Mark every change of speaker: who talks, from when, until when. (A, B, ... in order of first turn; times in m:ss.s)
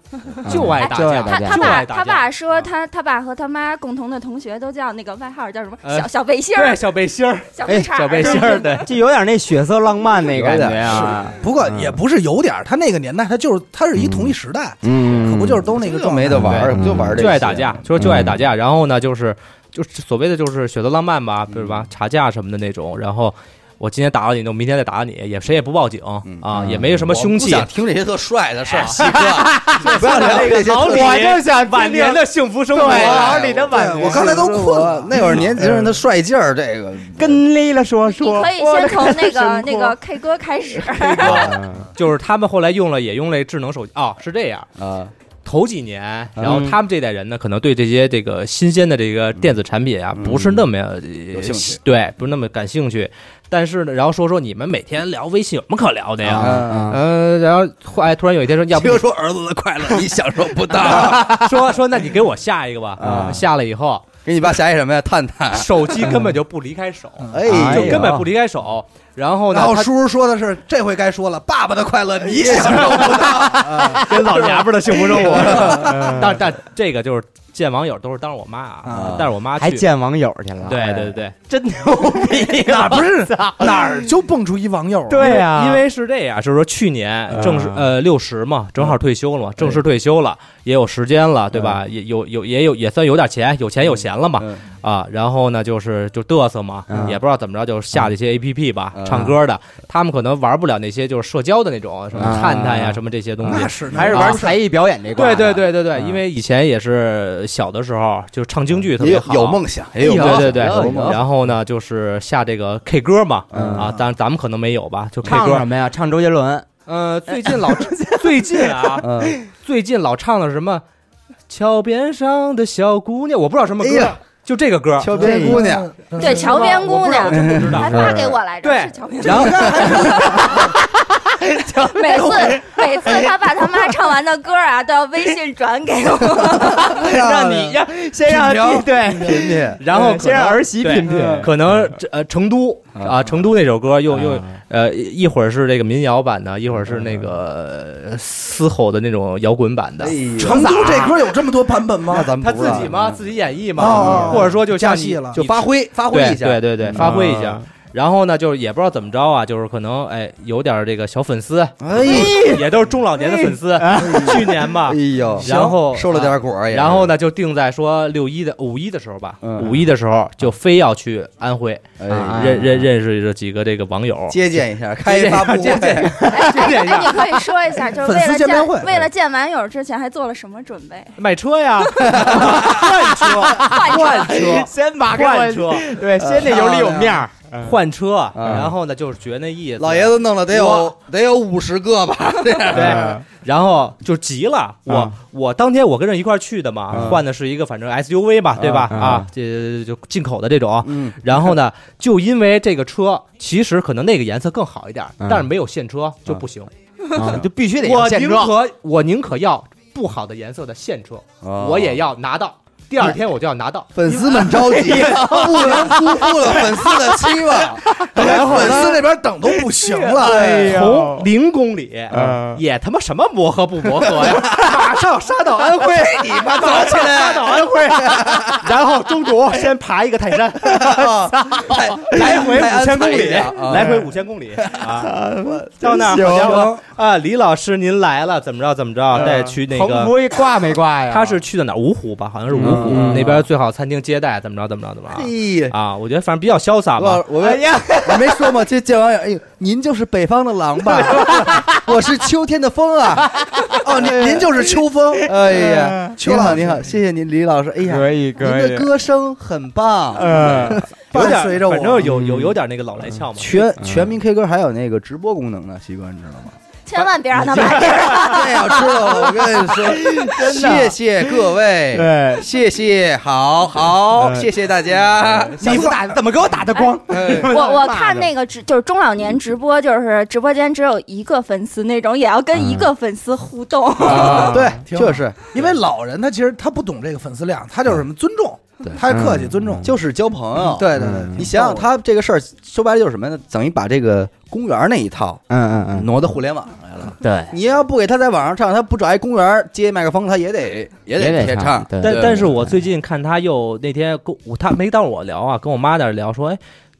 0:00.4-0:02.3 A
0:00.4-0:01.8 B
0:00.7-0:06.8 C
0:05.8-0:08.9 A
0:07.5-0:08.9 C
0:07.6-0:12.0 B
0:10.3-0:11.1 D
0:10.8-0:16.6 E
0:14.8-0:15.7 B
0:15.7-0:18.4 D
0:16.3-0:17.4 B
0:16.4-0:27.7 A
0:18.0-0:18.4 B
0:21.5-0:21.9 D
0:26.2-0:31.3 D
0:28.6-0:29.2 A
0:29.0-0:34.5 B
0:29.8-0:33.6 A
0:32.8-0:35.5 E
0:32.9-0:33.5 D
0:34.0-0:37.4 D
0:35.4-0:36.0 B
0:37.2-0:40.0 B
0:38.0-0:41.6 C
0:40.9-0:44.7 A
0:41.2-0:41.9 B
0:44.8-0:45.1 D
0:45.4-0:59.0 A
0:46.4-0:46.7 D
0:46.4-0:46.8 B
0:50.1-0:50.6 D
0:51.3-0:51.8 D
0:56.2-0:57.0 B
0:56.3-0:57.0 D
0:58.7-1:01.6 D
1:00.8-1:04.0 A
1:03.0-1:03.5 D
1:03.0-1:03.4 B
1:04.2-1:06.2 D
1:05.5-1:09.9 A
1:06.0-1:06.3 B
1:07.3-1:08.2 D
1:07.4-1:08.3 B
1:09.5-1:14.1 E
1:12.6-1:13.0 A
1:13.2-1:16.4 B
1:13.9-1:19.8 A
1:15.3-1:16.2 E
1:18.8-1:19.2 E
1:18.9-1:19.3 D
1:19.6-1:24.0 B
1:20.6-1:21.3 A
1:22.6-1:25.3 E
1:25.1-1:25.8 B
1:25.2-1:44.5 A
1:27.3-1:27.8 B
1:36.9-1:37.2 B
1:38.9-1:39.4 D
1:39.1-1:39.3 B
1:42.1-1:42.5 D
1:42.2-1:45.7 B
1:43.5-1:44.5 E
1:45.2-1:55.7 A
1:49.0-1:51.2 D
1:50.0-1:51.2 B
1:53.5-1:53.9 D
1:53.5-1:53.9 B
1:55.2-1:56.6 B
1:56.8-2:00.8 A
1:57.3-1:59.0 B
1:59.0-1:59.4 D
2:01.5-2:05.1 A
2:03.8-2:04.2 D
2:05.0-2:05.9 D
2:05.1-2:06.8 E
2:05.2-2:05.7 B
2:06.2-2:10.8 C
2:06.2-2:10.7 A
2:07.2-2:08.4 D
2:09.2-2:10.8 E
2:11.3-2:13.9 B
2:11.9-2:17.1 C
2:16.8-2:18.8 E
2:16.8-2:21.5 B
2:17.2-2:17.7 A
2:18.4-2:19.8 D
2:19.8-2:30.2 A
2:21.0-2:21.5 D
2:23.0-2:23.2 D
2:24.1-2:24.4 B
2:30.0-2:30.8 D
2:30.4-2:32.3 E
2:30.4-2:31.2 B
2:32.1-2:33.2 D
2:32.4-2:54.4 A
2:33.8-2:35.4 E
2:33.8-2:34.5 D
2:35.3-2:37.2 D
2:36.9-2:37.6 B
2:41.8-2:42.5 D
2:42.0-2:42.6 B
2:43.2-2:44.3 B
2:43.9-2:47.1 D
2:45.5-2:45.7 E
2:49.4-2:49.8 D
2:52.0-2:52.8 D
2:52.1-2:52.9 B
2:54.3-2:56.1 D
2:55.0-2:57.5 A
2:56.2-3:01.2 C
2:58.0-2:59.0 E
3:01.2-3:06.0 A
3:02.0-3:02.3 C
3:02.1-3:02.6 D
3:02.6-3:07.7 B
3:03.5-3:04.3 C
3:06.2-3:07.2 D
3:07.6-3:10.9 A
3:08.3-3:08.7 D
3:09.8-3:13.2 D
3:12.7-3:26.7 A
3:12.7-3:13.2 B
3:16.9-3:17.2 B
3:16.9-3:17.2 D
3:18.6-3:19.2 D
3:18.9-3:19.3 B
3:20.8-3:21.5 D
3:25.2-3:25.5 B
3:27.1-3:28.5 B
3:27.2-3:34.0 A
3:31.4-3:32.0 D
3:33.9-3:39.0 D
3:34.0-3:38.9 B
3:34.6-3:36.3 A
3:38.1-3:40.5 E
3:39.5-3:41.3 B
3:40.2-3:40.8 D
3:40.4-3:55.1 A
3:42.1-3:42.6 B
3:46.1-3:48.7 D
3:46.6-3:46.9 E
3:50.7-3:54.0 D
3:53.7-3:54.0 B
3:54.9-3:56.7 B
3:55.4-3:56.8 D
3:55.8-4:00.2 A
3:59.1-4:01.4 B
4:01.1-4:07.3 A
4:02.5-4:03.4 B
4:02.5-4:03.4 D
4:05.1-4:05.7 D
4:07.0-4:14.6 D
4:07.4-4:08.6 B
4:10.8-4:11.9 B
4:13.3-4:14.1 B
4:13.8-4:15.3 E
4:15.2-4:21.4 D
4:15.5-4:16.2 B
4:16.1-4:16.8 E
4:17.9-4:18.9 B
4:20.2-4:20.8 B
4:21.1-4:22.0 E
4:21.1-4:23.6 A
4:21.9-4:22.2 D
4:22.0-4:22.5 B
4:23.3-4:26.6 D
4:23.8-4:24.1 B
4:26.8-4:29.3 C
4:27.6-4:28.2 B
4:27.7-4:36.0 D
4:29.2-4:31.3 B
4:31.9-4:32.5 B
4:34.1-4:34.5 B
4:35.2-4:38.3 B
4:35.6-4:36.0 E
4:36.7-4:44.6 C
4:37.0-4:37.6 D
4:42.5-4:42.9 B
4:44.0-4:44.8 B
4:44.1-4:45.5 D
4:44.4-4:49.9 E
4:49.0-4:49.9 B
4:49.8-5:02.6 D
4:50.7-4:51.8 E
4:50.9-4:51.5 B
4:55.5-4:56.1 B
4:57.2-4:57.5 B
5:01.2-5:02.7 B
5:02.0-5:06.6 A